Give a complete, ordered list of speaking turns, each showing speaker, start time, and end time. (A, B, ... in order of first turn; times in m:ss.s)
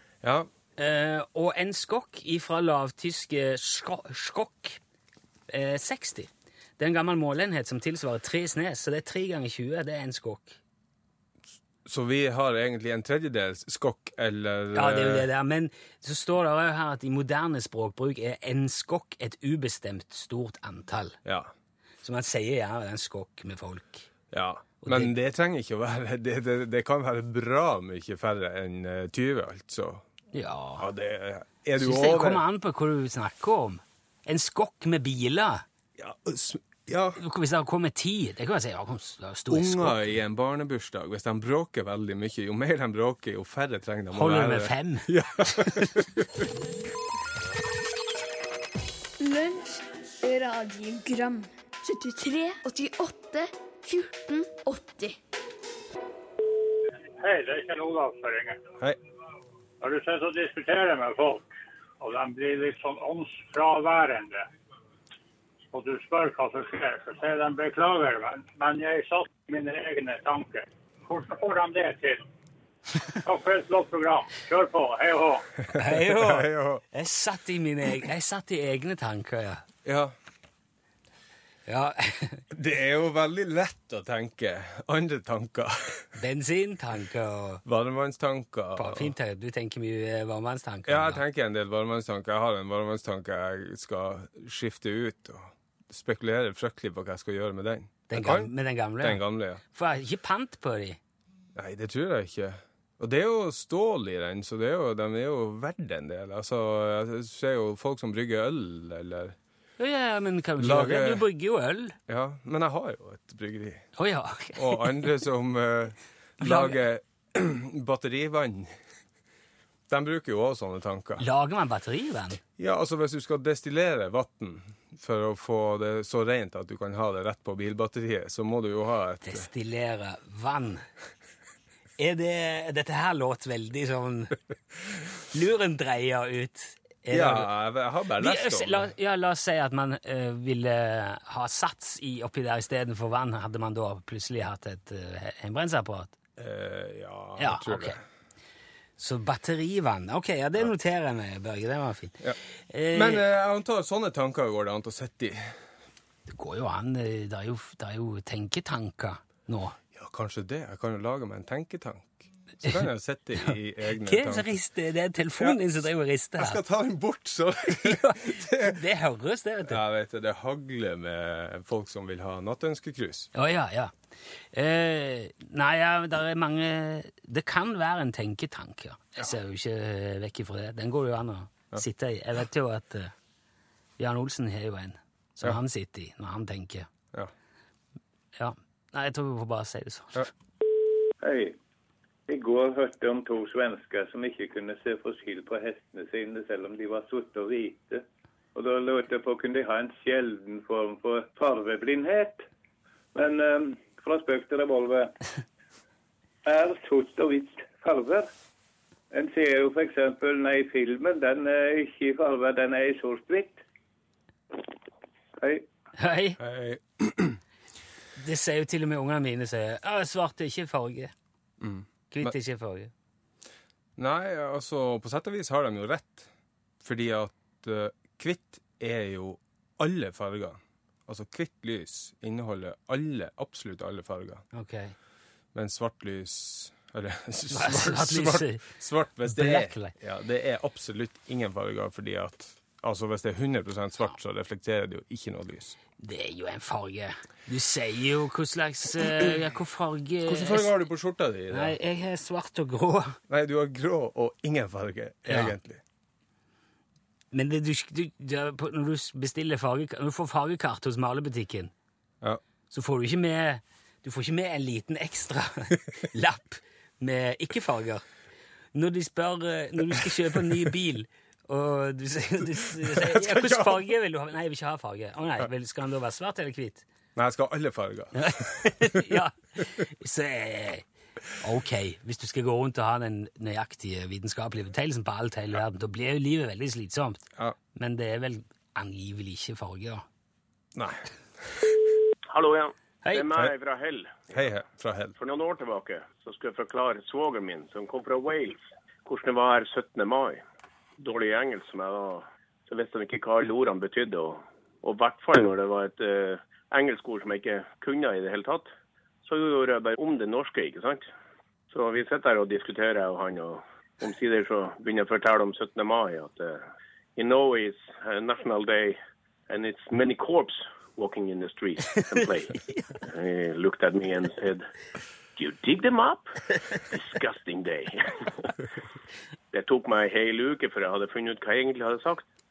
0:00.2-0:00.5 A
0:00.8-0:04.8 B
0:05.5-0:10.6 B
0:11.9-0:15.3 A
0:14.8-0:21.2 B
0:21.2-0:21.5 A
0:22.0-0:24.1 B
0:24.3-0:30.0 A
0:24.8-0:25.1 B
0:30.3-0:30.9 B
0:30.8-0:32.4 A
0:31.8-0:35.6 B
0:36.0-0:37.2 A
0:37.2-0:40.0 B
0:39.5-0:46.4 A
0:44.1-0:45.9 B
0:49.2-0:55.2 C
0:57.2-0:58.6 D
0:59.8-1:01.5 D
1:02.0-1:04.4 D
1:05.7-1:12.2 D
1:13.2-1:15.4 D
1:15.7-1:19.6 B
1:15.8-1:16.8 A
1:19.8-1:20.1 A
1:21.7-1:22.4 B
1:22.5-1:26.1 A
1:26.2-1:27.6 B
1:27.6-1:29.1 A
1:28.8-1:31.2 B
1:30.9-1:39.6 A
1:38.1-1:41.0 B
1:41.6-1:49.4 A
1:49.8-1:52.0 B
1:50.6-1:51.2 A
1:52.1-1:53.9 A
1:54.0-1:55.0 B
1:54.6-1:58.8 A
1:56.4-1:56.8 B
1:59.9-2:01.2 A
2:01.2-2:02.4 B
2:02.6-2:09.5 A
2:09.3-2:10.8 B
2:12.0-2:14.4 B
2:15.3-2:17.5 B
2:17.1-2:18.9 A
2:18.2-2:26.1 B
2:26.4-2:28.0 A
2:27.4-2:28.0 B
2:29.0-2:33.2 B
2:32.9-2:35.6 A
2:36.3-2:39.8 B
2:39.9-2:44.6 A
2:43.4-2:46.6 B
2:46.4-2:48.8 A
2:47.7-2:49.8 B
2:49.7-2:53.3 A
2:53.3-2:53.9 B
2:54.5-3:03.1 B
3:04.0-3:06.9 B
3:08.4-3:10.3 B
3:11.2-3:11.6 E
3:12.3-3:22.4 E
3:23.1-3:25.2 E
3:26.4-3:28.3 E
3:29.1-3:33.6 E
3:35.4-3:35.7 E
3:36.0-3:36.4 B
3:36.4-3:37.4 A
3:38.2-3:41.1 B
3:41.6-3:42.3 A
3:42.1-3:42.9 B
3:44.0-3:46.3 A
3:46.8-3:54.4 A
3:54.5-3:55.0 B
3:55.5-4:05.8 A
3:57.5-3:58.6 B
3:59.3-3:59.9 B
4:06.0-4:10.7 B
4:10.3-4:11.8 A
4:11.5-4:13.2 B
4:13.3-4:15.8 A
4:15.3-4:15.5 B
4:17.3-4:21.7 B
4:22.7-4:28.0 B
4:28.7-4:36.8 B
4:32.8-4:33.8 A
4:37.2-4:39.0 A
4:38.2-4:40.8 B
4:41.4-4:47.2 B
4:47.8-4:50.1 B
4:50.8-4:51.0 A
4:52.3-4:54.3 F
4:53.0-4:53.3 B
4:54.3-4:55.2 A
4:55.2-5:00.4 F
5:01.0-5:08.7 F
5:09.2-5:11.1 F
5:11.7-5:16.6 F
5:17.2-5:19.0 F
5:19.5-5:24.7 F
5:25.4-5:28.5 F
5:29.5-5:32.3 F